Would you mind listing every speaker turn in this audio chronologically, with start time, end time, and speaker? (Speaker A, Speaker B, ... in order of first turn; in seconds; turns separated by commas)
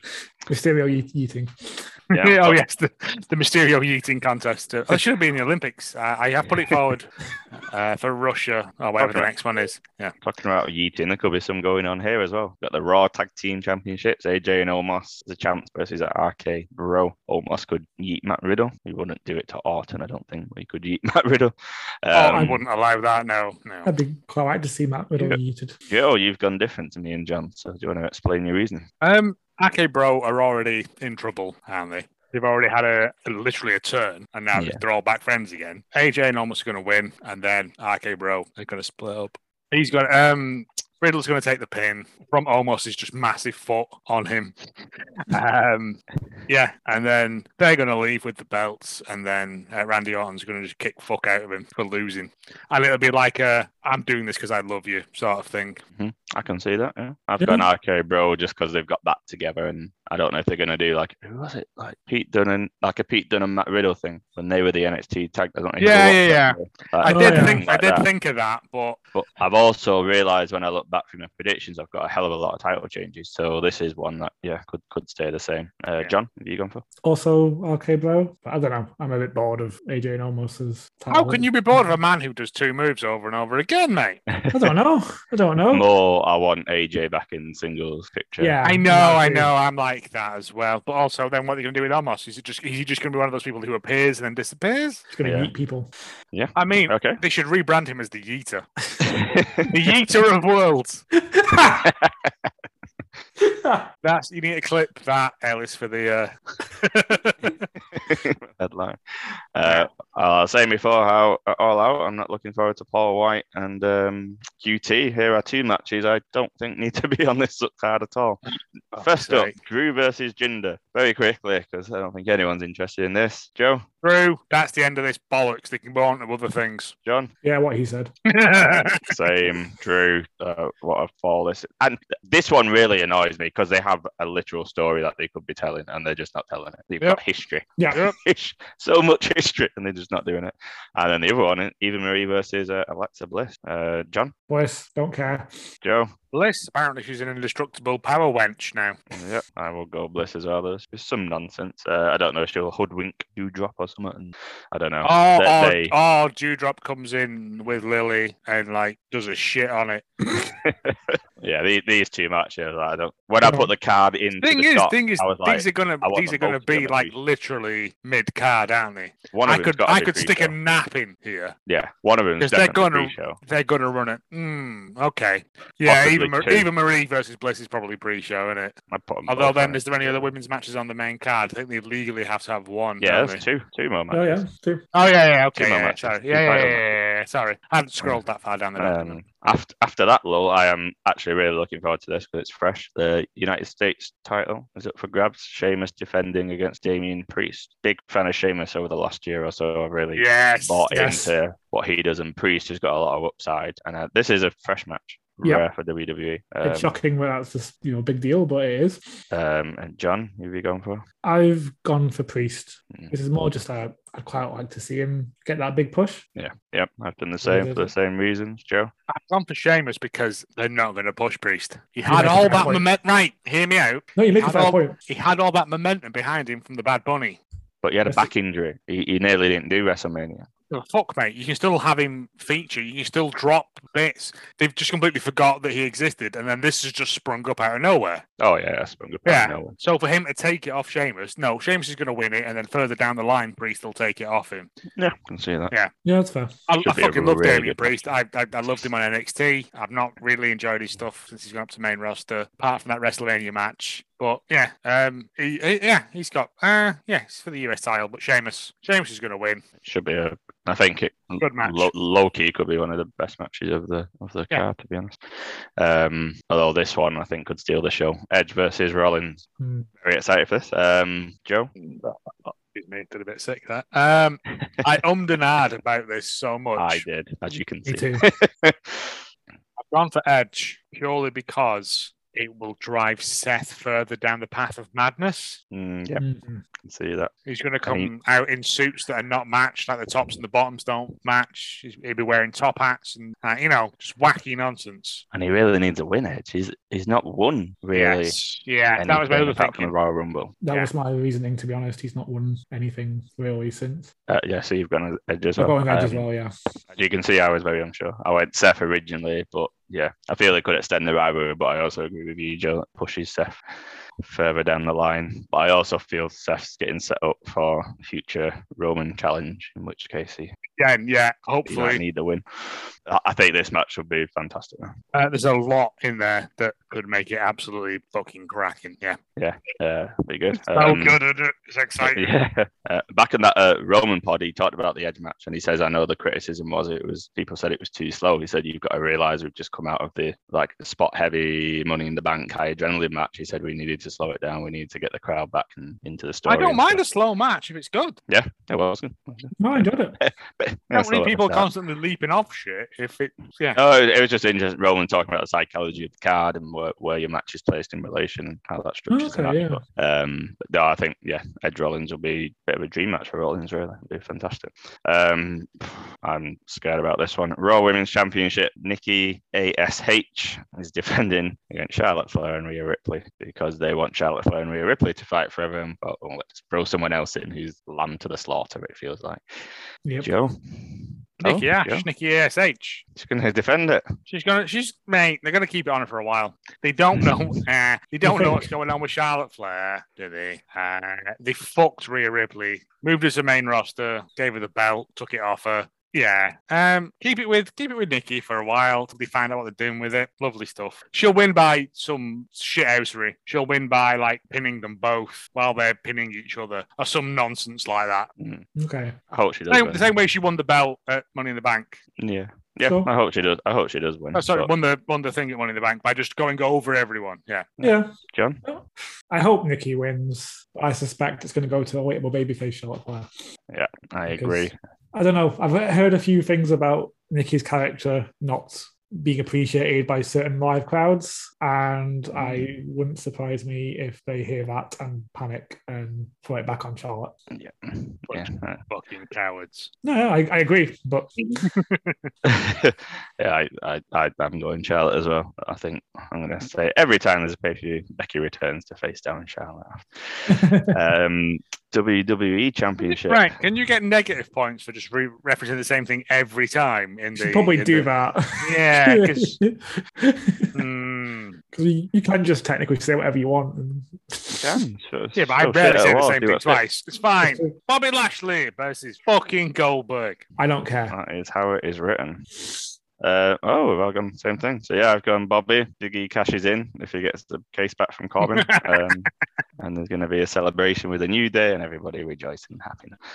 Speaker A: 0.5-1.9, Speaker B: 2.1-2.6, Speaker C: 2.1-10.1, Speaker B: 9.0-9.3, Speaker B: 10.2-22.6, Speaker C: 22.1-23.9, Speaker A: 22.3-22.6, Speaker A: 23.8-25.8, Speaker B: 25.2-28.9, Speaker C: 29.0-44.5, Speaker B: 34.5-34.8, Speaker C: 45.2-55.8, Speaker B: 56.0-68.1, Speaker A: 57.4-57.6, Speaker C: 65.8-69.0, Speaker A: 67.0-67.6, Speaker B: 69.1-76.8, Speaker A: 77.0-82.0, Speaker C: 81.1-84.2, Speaker B: 84.3-84.7, Speaker A: 84.5-85.8, Speaker B: 85.7-88.6, Speaker A: 88.4-89.5, Speaker C: 88.6-95.1, Speaker A: 95.1-95.9, Speaker B: 95.2-95.5, Speaker B: 96.3-97.2, Speaker C: 96.5-98.7, Speaker B: 99.0-99.7, Speaker C: 99.7-101.0, Speaker A: 101.3-101.9, Speaker B: 101.7-102.5, Speaker A: 103.4-103.9, Speaker C: 104.0-107.5, Speaker B: 107.9-109.0, Speaker B: 109.5-118.4, Speaker C: 109.6-109.9, Speaker B: 118.9-123.8, Speaker C: 118.9-119.5, Speaker C: 124.0-126.9, Speaker B: 127.0-127.3, Speaker A: 127.4-128.1, Speaker C: 128.3-129.1, Speaker B: 128.5-144.3, Speaker C: 137.9-138.2, Speaker A: 144.5-145.7, Speaker B: 145.8-146.1, Speaker C: 146.3-149.0, Speaker B: 149.1-155.9, Speaker C: 155.0-160.5, Speaker B: 160.6-167.1, Speaker C: 164.4-171.5, Speaker B: 169.3-170.5, Speaker B: 171.7-173.4, Speaker C: 172.4-178.8, Speaker B: 175.8-176.7, Speaker B: 178.9-180.3, Speaker C: 179.3-183.4, Speaker B: 183.0-184.4, Speaker A: 184.1-184.8, Speaker C: 184.9-189.2, Speaker B: 185.6-186.8, Speaker B: 188.8-206.9, Speaker C: 200.1-200.8, Speaker A: 200.9-201.3, Speaker A: 206.6-209.2, Speaker B: 209.3-211.0, Speaker A: 211.2-216.2, Speaker B: 216.3-218.9, Speaker A: 217.4-217.9, Speaker C: 219.1-227.4, Speaker A: 222.0-222.8, Speaker A: 224.2-224.9, Speaker B: 227.8-230.5, Speaker C: 230.7-238.2, Speaker B: 238.4-239.7, Speaker C: 239.2-244.7, Speaker B: 244.9-245.7, Speaker A: 246.0-246.5, Speaker C: 246.7-259.6, Speaker B: 246.8-248.0, Speaker B: 259.8-269.4, Speaker C: 261.4-261.9, Speaker A: 269.6-269.9, Speaker B: 270.0-271.7, Speaker C: 271.8-277.0, Speaker B: 276.8-279.2, Speaker A: 277.9-278.2, Speaker C: 279.9-285.6, Speaker B: 285.7-286.2, Speaker A: 286.2-286.6, Speaker B: 286.8-287.3, Speaker C: 287.4-295.2, Speaker B: 287.8-288.1, Speaker B: 295.3-298.4, Speaker C: 297.9-299.9, Speaker B: 299.0-300.5, Speaker A: 300.6-304.1, Speaker B: 304.3-306.2, Speaker A: 305.6-306.5, Speaker B: 306.9-313.6, Speaker B: 314.2-320.5, Speaker C: 320.8-322.0, Speaker B: 321.7-324.9, Speaker C: 325.1-329.2, Speaker B: 329.4-331.2, Speaker C: 330.6-332.3, Speaker B: 332.0-347.0, Speaker C: 346.5-348.2, Speaker B: 348.3-351.7, Speaker A: 349.6-350.2, Speaker C: 350.9-353.8, Speaker B: 353.7-382.1, Speaker A: 359.1-359.8, Speaker C: 381.4-383.0, Speaker B: 383.1-384.1, Speaker C: 384.3-408.3, Speaker A: 388.2-388.6, Speaker B: 408.4-408.6, Speaker A: 408.8-409.1, Speaker B: 409.3-410.1, Speaker C: 409.7-412.0, Speaker B: 412.2-414.7, Speaker A: 412.8-413.1, Speaker C: 414.3-417.7, Speaker B: 417.8-418.6, Speaker A: 417.8-423.3, Speaker B: 423.7-424.7, Speaker A: 424.3-437.3, Speaker B: 432.4-432.7, Speaker B: 437.5-438.8, Speaker C: 438.3-439.9, Speaker A: 440.0-441.4, Speaker C: 441.6-442.2, Speaker B: 442.4-453.5, Speaker A: 450.5-450.9, Speaker C: 453.1-458.1, Speaker A: 457.4-460.8, Speaker C: 458.6-459.6, Speaker C: 460.7-461.6, Speaker A: 461.7-464.8, Speaker B: 464.6-466.8, Speaker C: 465.4-470.4, Speaker A: 467.4-467.7, Speaker A: 470.6-471.1, Speaker B: 471.1-472.4, Speaker B: 473.2-483.2, Speaker C: 478.5-478.9